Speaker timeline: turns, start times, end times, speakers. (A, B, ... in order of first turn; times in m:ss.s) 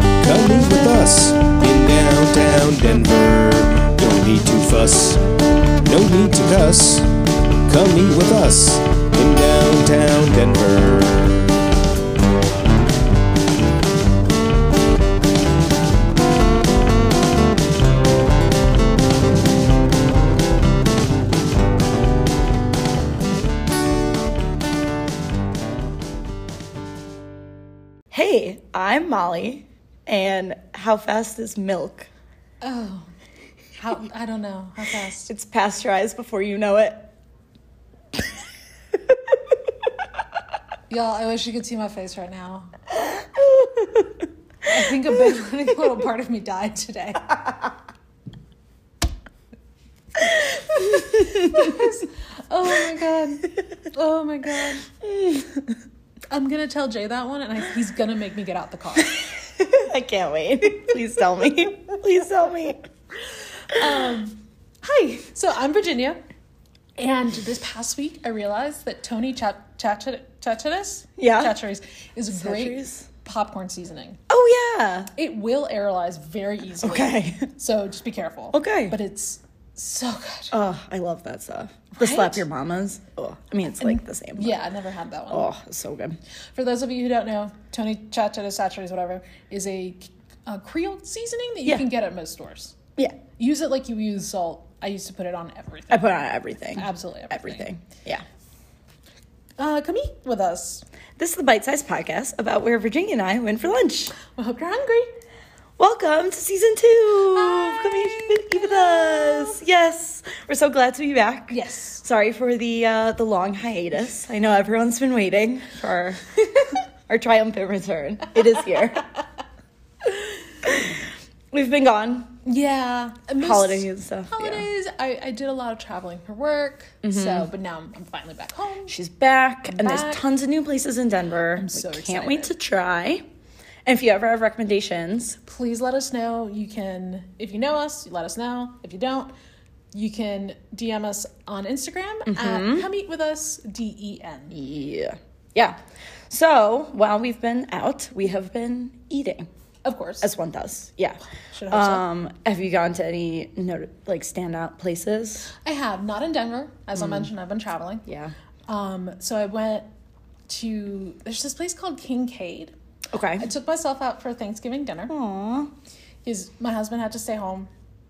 0:00.2-0:05.2 A
0:05.8-0:07.0 A
0:07.6-0:11.4 A
0:28.1-0:32.1 B
0:32.6-0:33.1 C
0:33.8-0:35.3 C
0:35.3-0:37.1 B
0:40.9-0:42.7 C
0:43.4-0:44.0 B
0:44.6-0:47.6 C
0:50.7-0:51.8 B
0:50.7-0:54.8 C
0:55.0-0:55.7 B
0:56.3-0:59.3 C
0:59.6-1:02.8 B
1:03.7-1:06.2 C
1:07.0-1:14.2 C
1:11.2-1:11.5 B
1:12.3-1:13.1 B
1:14.3-1:15.1 B
1:15.2-1:20.5 C
1:16.8-1:17.4 B
1:18.5-1:19.0 B
1:20.5-1:24.6 B
1:22.0-1:22.4 C
1:23.8-1:25.5 C
1:25.3-1:26.2 B
1:26.5-1:32.8 C
1:33.4-1:36.2 C
1:35.9-1:38.2 B
1:36.7-1:37.7 C
1:39.6-1:40.8 C
1:41.2-1:44.1 B
1:44.2-1:45.1 C
1:45.8-1:56.3 B
1:47.3-1:49.6 C
1:51.5-1:52.0 C
1:57.1-1:59.0 B
2:00.6-2:01.0 B
2:01.5-2:02.4 B
2:02.4-2:09.0 C
2:03.4-2:04.7 B
2:07.0-2:07.5 B
2:08.9-2:13.2 B
2:09.7-2:10.2 C
2:11.5-2:12.5 C
2:13.8-2:15.4 B
2:15.4-2:19.3 C
2:19.9-2:24.6 C
2:22.3-2:22.9 B
2:24.5-2:25.8 B
2:26.3-2:29.4 B
2:29.8-2:30.3 C
2:30.2-2:35.5 B
2:31.5-2:32.0 C
2:35.6-2:38.0 C
2:36.9-2:37.3 B
2:38.0-2:38.3 B
2:38.7-2:39.8 C
2:40.5-2:42.7 C
2:43.1-2:43.5 B
2:43.4-2:45.1 C
2:45.1-2:45.7 B
2:46.2-2:47.7 C